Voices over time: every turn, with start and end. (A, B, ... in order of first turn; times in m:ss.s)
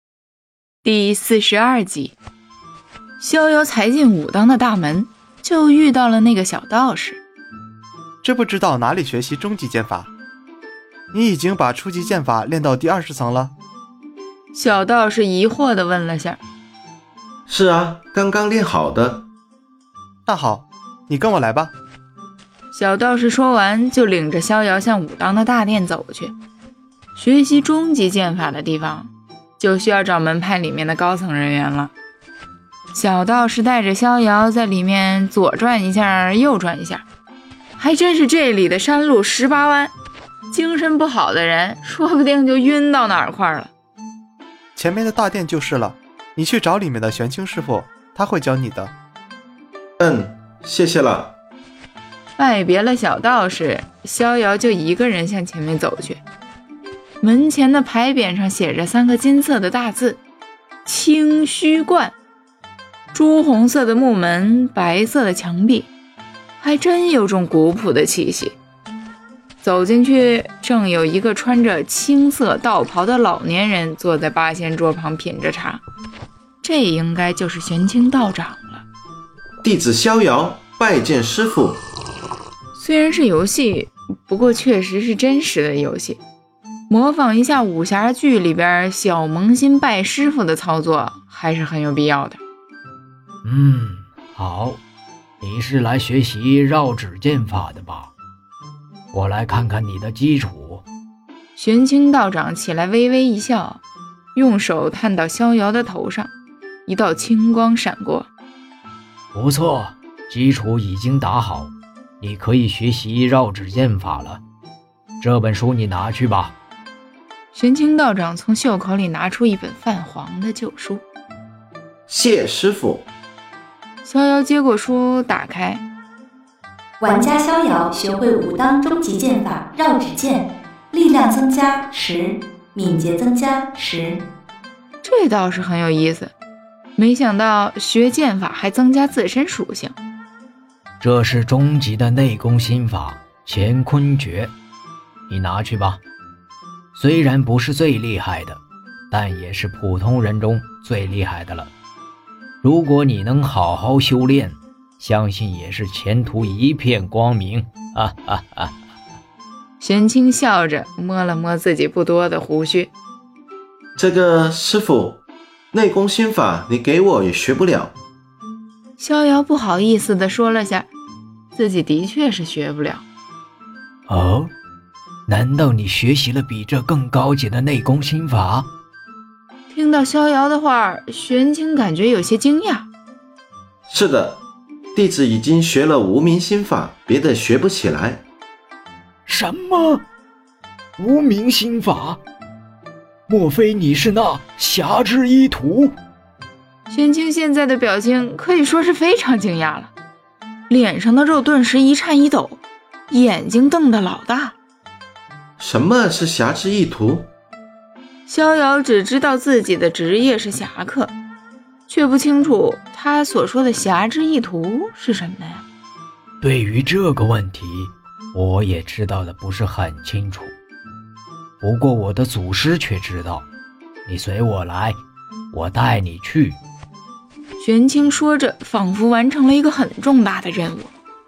0:00.8-0:02.2 A
0:03.2-0:07.2 A
0:08.2-0:10.1 B
0:11.1-0:13.5 B
0:14.5-0:16.4 A
0:17.5-0:19.3 C
0:20.3-0:21.7 B
0:22.7-0:26.4 A
0:27.2-0:31.9 A
0:32.9-0:37.0 A
0:37.8-0:39.9 A
0:40.5-0:43.7 A
0:44.8-0:48.9 B
0:50.0-0:51.4 C
0:52.4-0:56.2 A
0:57.2-1:00.2 A
1:00.8-1:02.2 A
1:03.1-1:05.9 A
1:06.6-1:08.6 A
1:09.6-1:15.8 A
1:16.6-1:18.8 A
1:19.6-1:21.8 C
1:22.8-1:26.2 A
1:26.9-1:32.4 A
1:33.4-1:34.8 D
1:35.4-1:38.1 D
1:39.1-1:40.8 D
1:41.6-1:43.8 A
1:44.4-1:46.3 A
1:46.9-1:48.3 A
1:49.3-1:54.4 D
1:55.2-1:56.6 D
1:57.5-2:01.0 A
2:02.1-2:03.1 C
2:04.0-2:05.8 A
2:07.0-2:14.2 E
2:15.0-2:16.3 A
2:17.0-2:20.0 A
2:21.0-2:24.5 D
2:25.3-2:26.0 D
2:26.9-2:31.7 D
2:32.6-2:38.7 D
2:39.8-2:42.9 A
2:44.0-2:48.0 C
2:49.0-2:50.9 A
2:51.6-2:53.0 A
2:54.1-2:54.5 D
2:55.3-2:58.7 D
2:59.7-3:02.9 A
3:03.9-3:04.4 C
3:04.9-3:08.2 C
3:09.3-3:10.0 D
3:11.0-3:12.2 D
3:13.3-3:16.0 D
3:16.9-3:19.9 A
3:20.7-3:24.6 A
3:25.6-3:27.3 C
3:28.3-3:31.1 A
3:31.9-3:35.6 A
3:36.4-3:40.5 D
3:41.6-3:43.5 D
3:44.1-3:45.0 D
3:45.5-3:46.6 D
3:47.6-3:50.9 A